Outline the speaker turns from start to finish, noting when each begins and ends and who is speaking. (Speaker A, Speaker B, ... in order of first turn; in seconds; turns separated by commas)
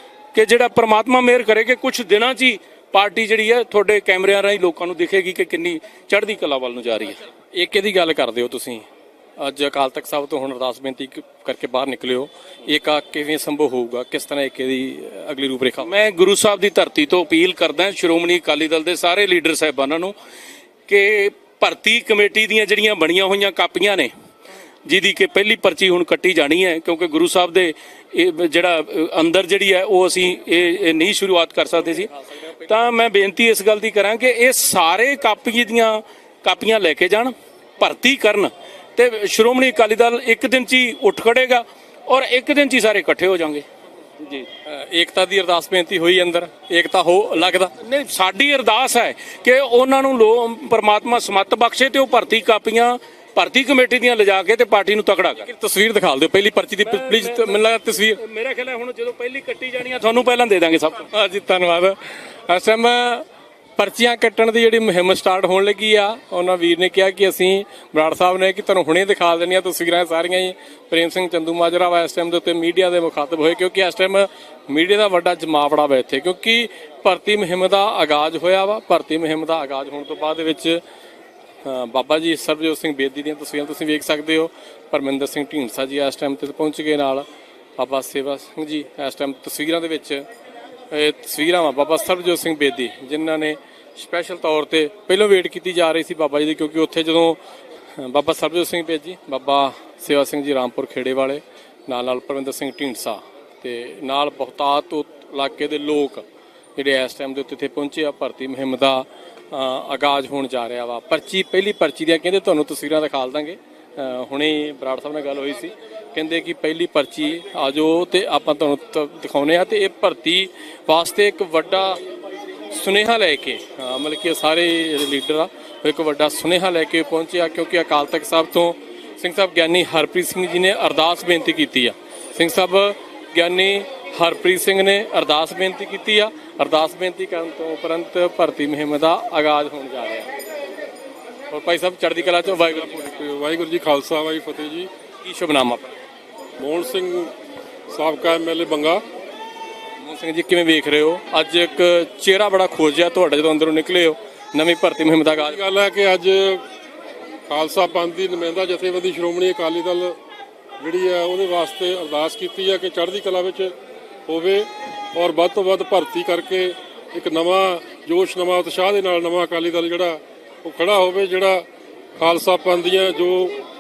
Speaker A: 0.3-7.2, Speaker B: 7.5-8.9, Speaker B: 9.4-15.9, Speaker A: 15.8-20.1, Speaker A: 20.9-24.1, Speaker A: 24.9-43.6, Speaker A: 44.2-44.5, Speaker B: 44.6-47.7, Speaker A: 47.8-55.5, Speaker B: 55.4-58.2, Speaker A: 56.8-61.1, Speaker B: 61.0-63.2, Speaker B: 63.8-80.8, Speaker B: 81.7-87.3, Speaker B: 87.8-90.2, Speaker B: 90.9-97.4, Speaker B: 98.0-106.2, Speaker B: 106.8-122.0, Speaker B: 122.7-140.3, Speaker B: 141.5-143.1, Speaker C: 142.7-144.9, Speaker B: 145.2-145.9, Speaker C: 146.6-147.3, Speaker C: 147.9-149.0, Speaker B: 150.0-155.6, Speaker C: 155.4-156.6, Speaker C: 157.5-160.2, Speaker C: 160.8-163.7, Speaker C: 164.3-171.7, Speaker C: 172.2-173.6